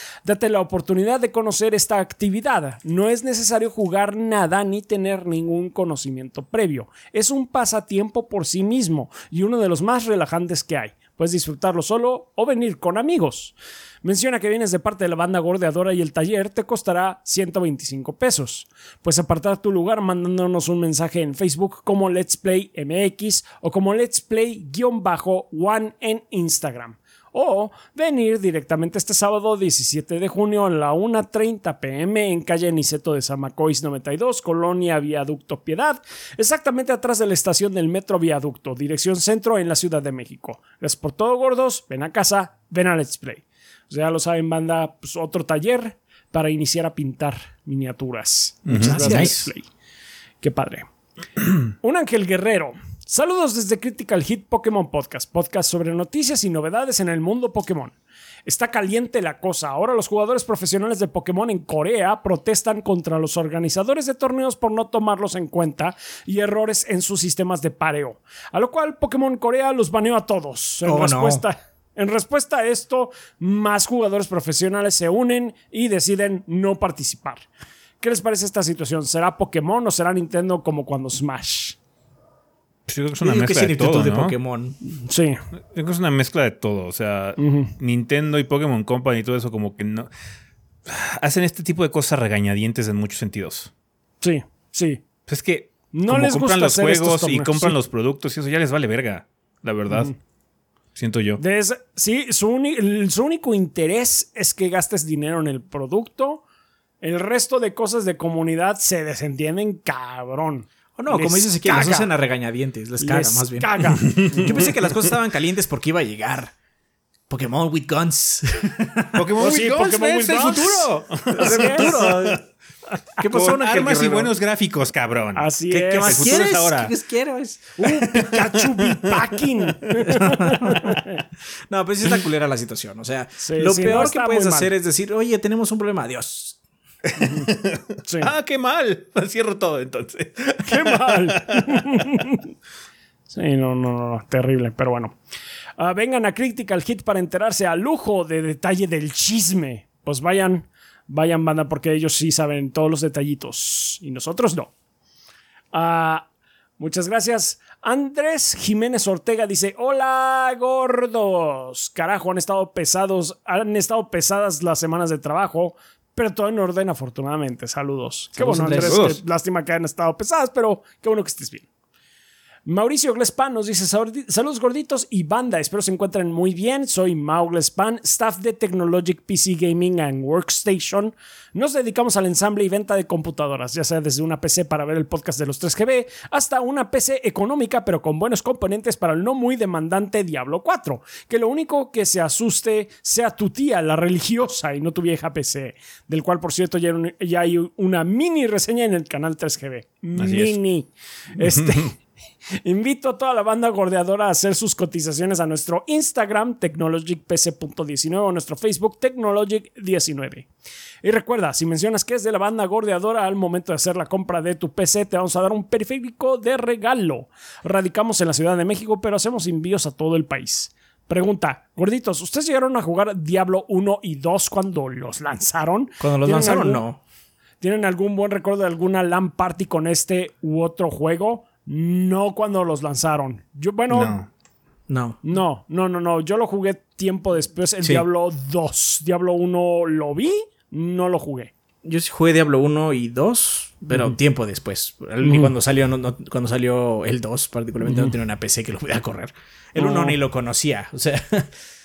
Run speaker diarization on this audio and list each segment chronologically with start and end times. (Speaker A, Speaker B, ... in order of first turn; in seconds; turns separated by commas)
Speaker A: 0.2-49.7, Speaker B: 48.7-49.5, Speaker C: 48.7-49.5, Speaker A: 50.4-50.9, Speaker A: 51.8-58.0, Speaker A: 58.5-77.5, Speaker C: 70.8-71.4, Speaker A: 78.0-81.8, Speaker B: 82.9-84.3, Speaker C: 83.2-84.8, Speaker A: 85.0-85.4, Speaker B: 85.7-90.1, Speaker A: 87.4-87.7, Speaker B: 90.9-93.7, Speaker A: 94.2-95.0, Speaker B: 95.3-100.1, Speaker A: 95.9-97.8, Speaker B: 101.0-101.4, Speaker A: 101.4-106.4, Speaker A: 107.0-112.1, Speaker C: 111.0-116.5, Speaker A: 113.0-114.4, Speaker B: 114.1-114.5, Speaker C: 117.3-119.3, Speaker B: 119.1-122.4, Speaker A: 119.4-122.2, Speaker C: 121.3-122.4, Speaker C: 123.2-124.3, Speaker B: 123.3-125.5, Speaker A: 125.4-126.4, Speaker C: 125.7-127.9, Speaker B: 126.0-126.9, Speaker A: 127.8-131.2, Speaker B: 127.8-129.4, Speaker C: 130.1-130.9, Speaker C: 131.7-136.6, Speaker A: 133.4-134.7, Speaker B: 137.1-142.2, Speaker A: 138.1-138.3, Speaker A: 140.7-142.4, Speaker A: 143.3-145.2, Speaker A: 145.8-154.7, Speaker A: 155.7-156.3, Speaker A: 156.8-171.7, Speaker C: 168.4-169.1, Speaker B: 168.7-169.2, Speaker A: 172.7-202.0, Speaker B: 200.2-200.6, Speaker B: 201.4-201.9, Speaker A: 202.5-210.5, Speaker A: 211.0-226.8, Speaker C: 226.0-227.0, Speaker A: 227.6-234.2, Speaker B: 233.9-234.3, Speaker C: 234.9-235.2, Speaker A: 235.2-241.5, Speaker C: 241.8-251.5, Speaker A: 245.2-245.5, Speaker A: 247.8-248.1, Speaker A: 249.8-250.2